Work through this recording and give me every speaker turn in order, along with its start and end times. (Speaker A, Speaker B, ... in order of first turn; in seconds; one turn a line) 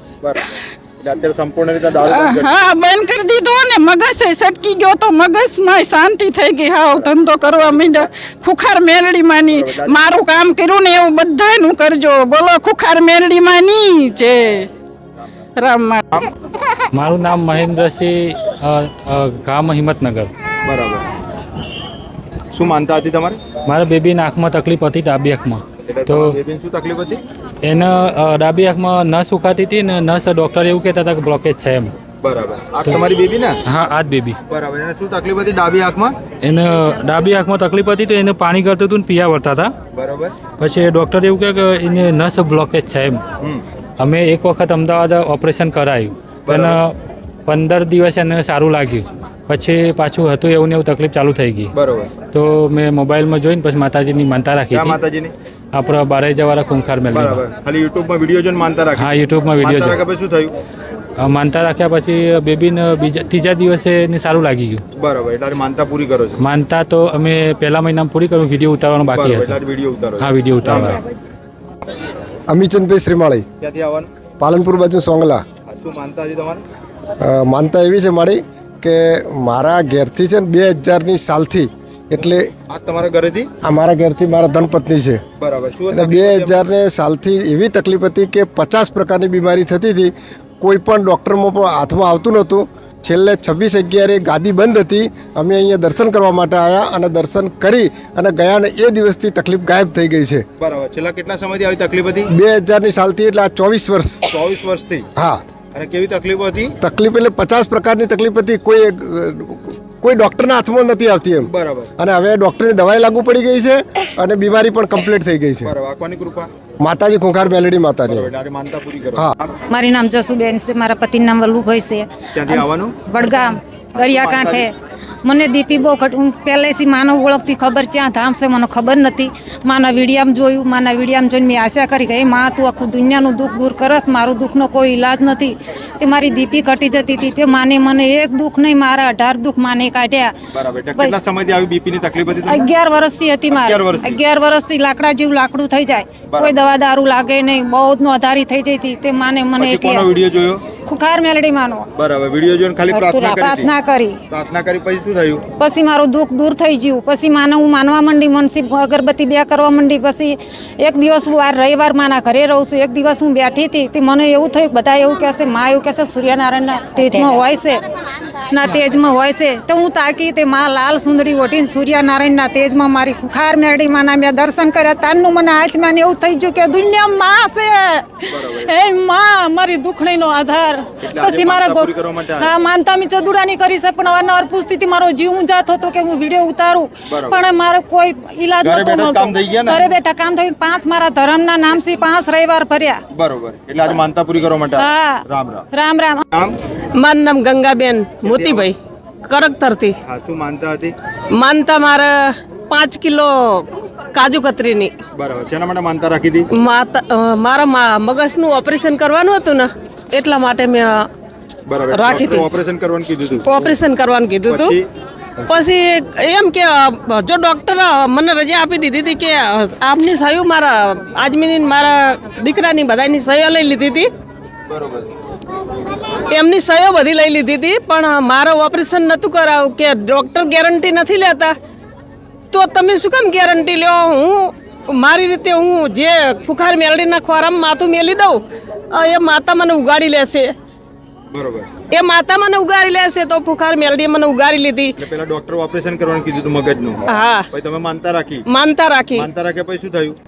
Speaker A: 1.0-2.6
Speaker B: 2.1-14.7
Speaker A: 6.8-8.1
Speaker A: 9.5-10.1
Speaker B: 15.6-16.0
Speaker C: 16.9-20.3
Speaker A: 20.6-21.0
Speaker A: 22.5-23.4
Speaker C: 23.7-26.4
Speaker A: 25.9-27.2
Speaker C: 27.6-31.9
Speaker A: 32.2-33.6
Speaker C: 33.7-34.4
Speaker A: 34.5-36.1
Speaker C: 36.4-39.7
Speaker A: 39.9-40.4
Speaker C: 40.6-43.2
Speaker C: 44.0-46.9
Speaker A: 46.5-46.8
Speaker C: 47.5-51.7
Speaker A: 51.7-52.1
Speaker C: 52.3-55.0
Speaker A: 54.7-55.3
Speaker C: 55.7-57.4
Speaker A: 57.1-60.5
Speaker C: 59.0-60.0
Speaker C: 61.2-64.8
Speaker A: 65.0-66.4
Speaker C: 66.4-69.6
Speaker A: 69.0-71.0
Speaker C: 70.2-71.0
Speaker D: 72.5-73.4
Speaker A: 73.6-74.1
Speaker D: 74.4-75.4
Speaker A: 75.7-76.6
Speaker D: 77.2-82.5
Speaker A: 82.7-83.5
Speaker D: 83.6-85.2
Speaker A: 85.4-86.6
Speaker D: 85.9-100.4
Speaker A: 100.6-102.3
Speaker D: 102.3-104.2
Speaker A: 104.3-105.0
Speaker A: 105.7-106.7
Speaker D: 106.8-115.7
Speaker A: 111.5-111.9
Speaker A: 115.6-116.5
Speaker D: 116.8-118.3
Speaker A: 118.1-119.5
Speaker E: 119.7-124.7
Speaker A: 122.3-122.9
Speaker A: 123.9-124.7
Speaker E: 125.2-140.3
Speaker A: 140.5-142.7
Speaker E: 142.4-150.0
Speaker A: 143.5-144.2
Speaker A: 146.3-146.6
Speaker A: 149.6-150.6
Speaker E: 150.8-151.9
Speaker A: 152.0-153.7
Speaker E: 152.9-154.2
Speaker A: 154.3-155.4
Speaker E: 155.6-167.8
Speaker E: 168.5-193.0
Speaker A: 178.3-178.7
Speaker A: 181.0-182.6
Speaker A: 187.1-187.4
Speaker A: 188.6-189.8
Speaker A: 193.1-195.6
Speaker E: 194.8-196.2
Speaker F: 197.0-198.7
Speaker A: 198.2-198.7
Speaker F: 199.3-199.9
Speaker A: 200.1-200.9
Speaker F: 201.4-203.6
Speaker F: 204.1-204.9
Speaker A: 205.2-206.5
Speaker F: 206.6-211.0
Speaker A: 211.7-213.6
Speaker F: 211.9-212.5
Speaker F: 213.4-214.7
Speaker A: 214.4-214.9
Speaker F: 215.5-224.1
Speaker A: 224.7-225.1
Speaker F: 226.3-231.5
Speaker F: 232.5-238.4
Speaker F: 238.9-240.5
Speaker A: 241.3-241.7
Speaker F: 241.9-244.9
Speaker A: 245.0-248.4
Speaker F: 247.1-247.5
Speaker F: 248.5-249.2
Speaker A: 249.1-250.2